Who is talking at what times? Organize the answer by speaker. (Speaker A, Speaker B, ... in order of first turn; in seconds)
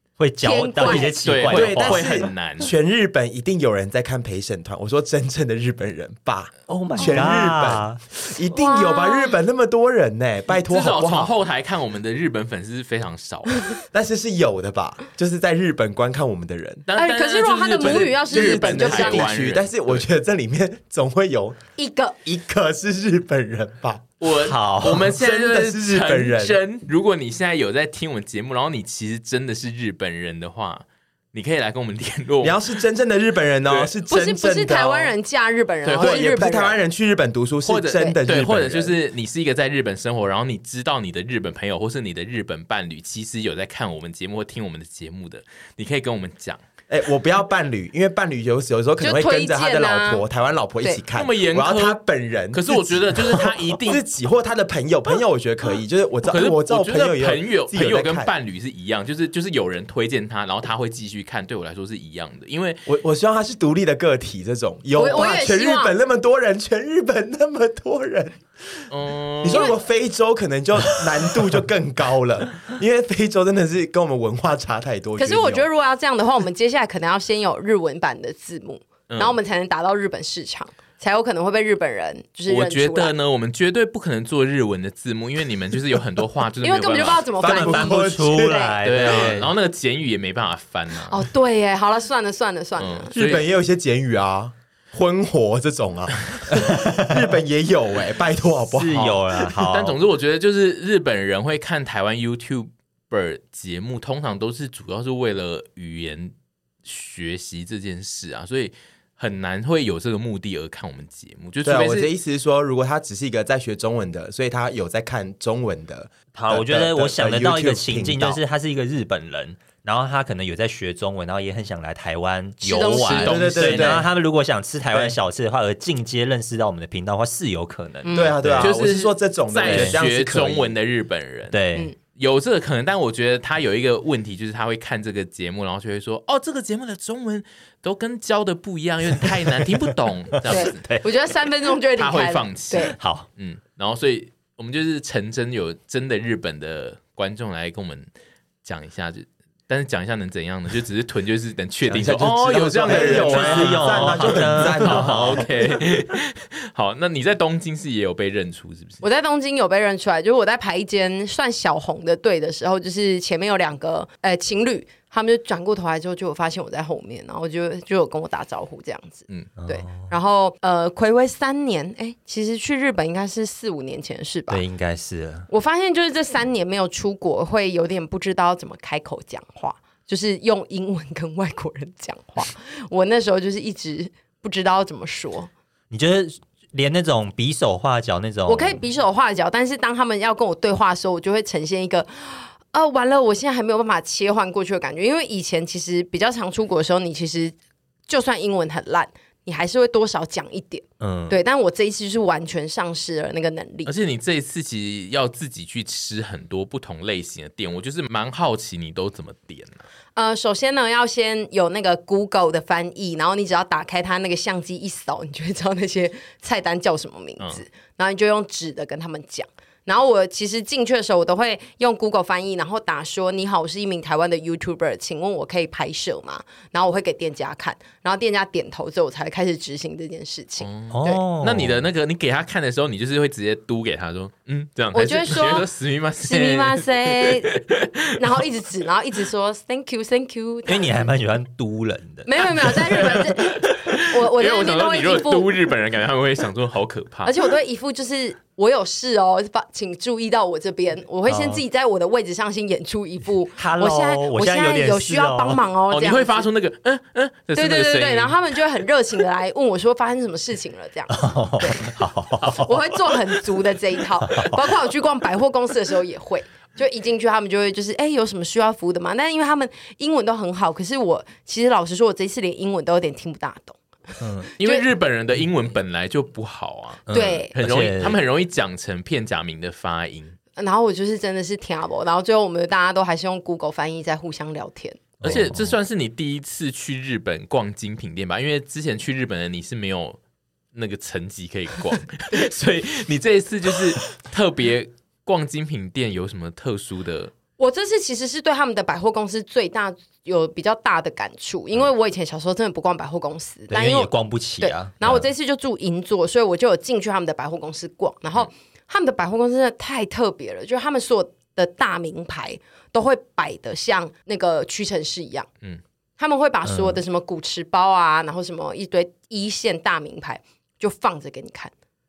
Speaker A: 0.2-2.3, 6.7-8.0, 24.4-25.1, 87.4-89.5, 96.8-97.2, 98.7-100.0, 116.3-128.7, 129.6-130.0, 131.5-131.9, 139.2-139.7, 140.3-141.1, 142.8-143.3, 152.9-155.5, 169.6-169.9, 174.5-175.5, 185.9-188.8, 201.0-201.4, 230.9-231.8, 240.7-243.2, 251.3-251.6, 253.6-255.6, 261.1-263.2, 264.3-264.6, 274.2-274.5, 277.1-278.2, 285.2-285.6, 303.7-305.3, 316.6-317.0
Speaker B: 0.4-1.2, 8.5-9.4, 17.0-19.3, 21.8-22.2, 34.1-36.8, 49.0-50.2, 65.0-66.0, 75.2-83.1, 86.6-88.8, 91.1-93.1, 122.7-123.2, 128.1-128.4, 140.5-143.0, 159.0-174.6, 175.5-185.5, 188.5-197.6, 198.1-203.9, 210.2-231.2, 234.9-235.7, 236.3-237.6, 238.2-241.1, 242.3-245.6, 247.2-256.5, 257.6-262.0, 262.5-274.9, 277.1-277.5, 280.6-285.4, 297.6-315.5, 316.2-321.7
Speaker C: 0.8-2.7, 10.6-13.7, 16.9-20.1, 24.2-32.8, 33.7-34.0, 35.9-36.2, 37.6-46.6, 51.1-52.0, 52.5-54.0, 56.3-62.9, 68.9-69.8, 79.1-79.4, 82.5-87.3, 88.8-91.3, 92.8-93.5, 99.7-106.3, 106.8-112.1, 122.7-124.0, 128.6-140.9, 142.0-148.1, 148.6-159.0, 203.9-209.9, 230.6-237.9, 243.0-247.3, 255.9-258.4, 274.6-280.4, 285.2-290.2, 290.7-297.3
Speaker D: 1.5-11.3, 13.9-16.9, 17.8-21.6, 22.2-24.1, 24.8-26.6, 32.4-35.1, 36.0-38.9, 46.9-58.3, 62.9-68.9, 69.4-75.7, 87.4-89.5, 93.1-99.7, 111.6-118.4, 123.0-124.1, 128.1-130.8, 151.9-155.8